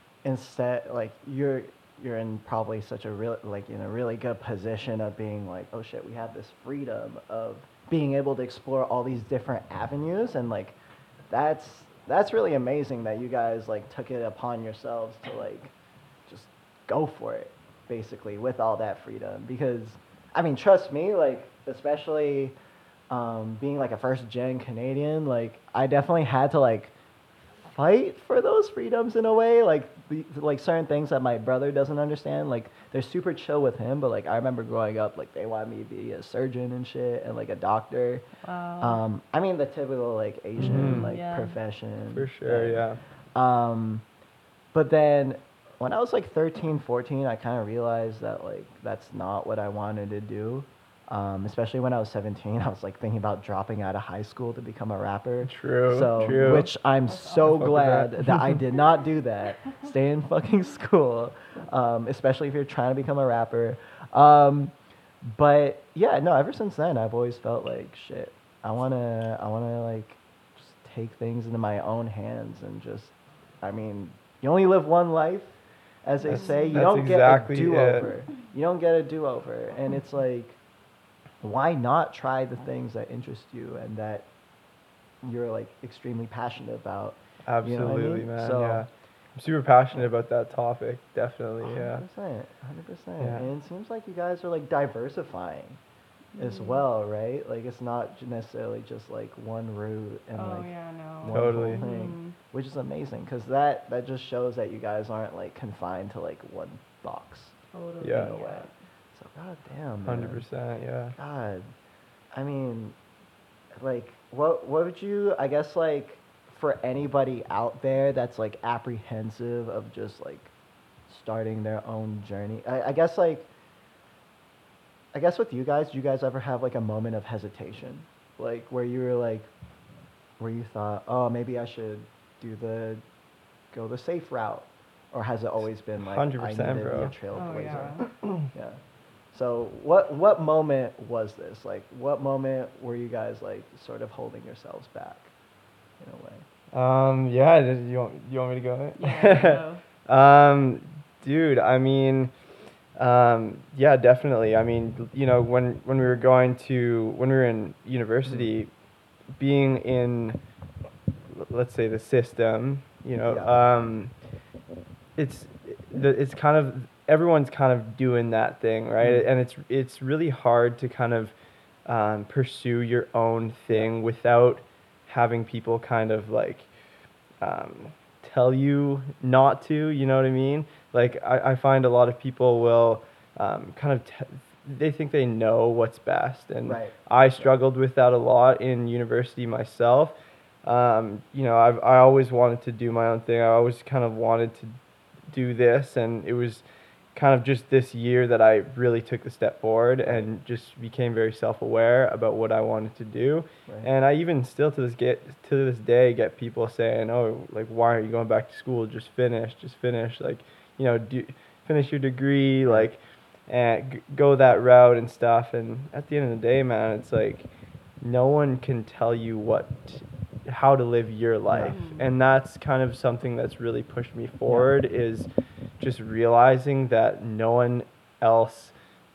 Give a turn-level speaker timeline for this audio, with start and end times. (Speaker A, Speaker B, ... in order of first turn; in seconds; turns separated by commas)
Speaker A: 0.2-10.8, Speaker A: 11.3-15.7, Speaker A: 16.3-22.6, Speaker A: 23.1-26.9, Speaker A: 27.6-38.3, Speaker B: 38.4-39.0, Speaker A: 38.8-42.8, Speaker C: 40.6-41.1, Speaker B: 40.6-41.6, Speaker C: 42.1-43.0, Speaker A: 43.3-44.0, Speaker A: 44.7-64.7, Speaker C: 55.4-56.7, Speaker B: 57.1-57.6, Speaker C: 57.5-58.6, Speaker A: 65.2-80.6, Speaker C: 76.2-78.1, Speaker B: 76.3-76.8, Speaker A: 81.4-84.3, Speaker A: 85.2-88.9, Speaker C: 87.5-92.0, Speaker A: 91.6-95.8, Speaker C: 93.2-93.5, Speaker B: 96.3-96.8, Speaker A: 96.4-100.7, Speaker B: 100.3-102.3, Speaker A: 101.2-107.6, Speaker C: 101.3-101.8, Speaker B: 107.7-108.7, Speaker C: 108.0-108.3, Speaker A: 108.1-110.4, Speaker C: 110.1-111.2, Speaker A: 111.2-111.7, Speaker A: 112.3-112.9, Speaker A: 113.8-120.5, Speaker A: 121.1-123.5, Speaker A: 125.1-129.5, Speaker A: 130.4-133.0, Speaker A: 133.7-138.8, Speaker C: 136.0-137.1, Speaker B: 137.3-138.0, Speaker C: 138.1-138.5, Speaker A: 139.3-145.3, Speaker A: 146.0-146.4, Speaker C: 146.7-152.3, Speaker B: 149.0-149.8, Speaker C: 152.9-158.7, Speaker C: 159.4-160.4, Speaker C: 161.3-164.1, Speaker A: 163.2-163.5, Speaker C: 165.2-171.3, Speaker A: 169.0-169.2, Speaker C: 171.8-176.7, Speaker C: 177.4-194.8, Speaker A: 186.7-187.0, Speaker C: 195.3-196.6, Speaker C: 197.2-217.5, Speaker C: 218.0-225.3, Speaker A: 221.5-221.8, Speaker B: 221.6-222.1, Speaker C: 225.8-228.7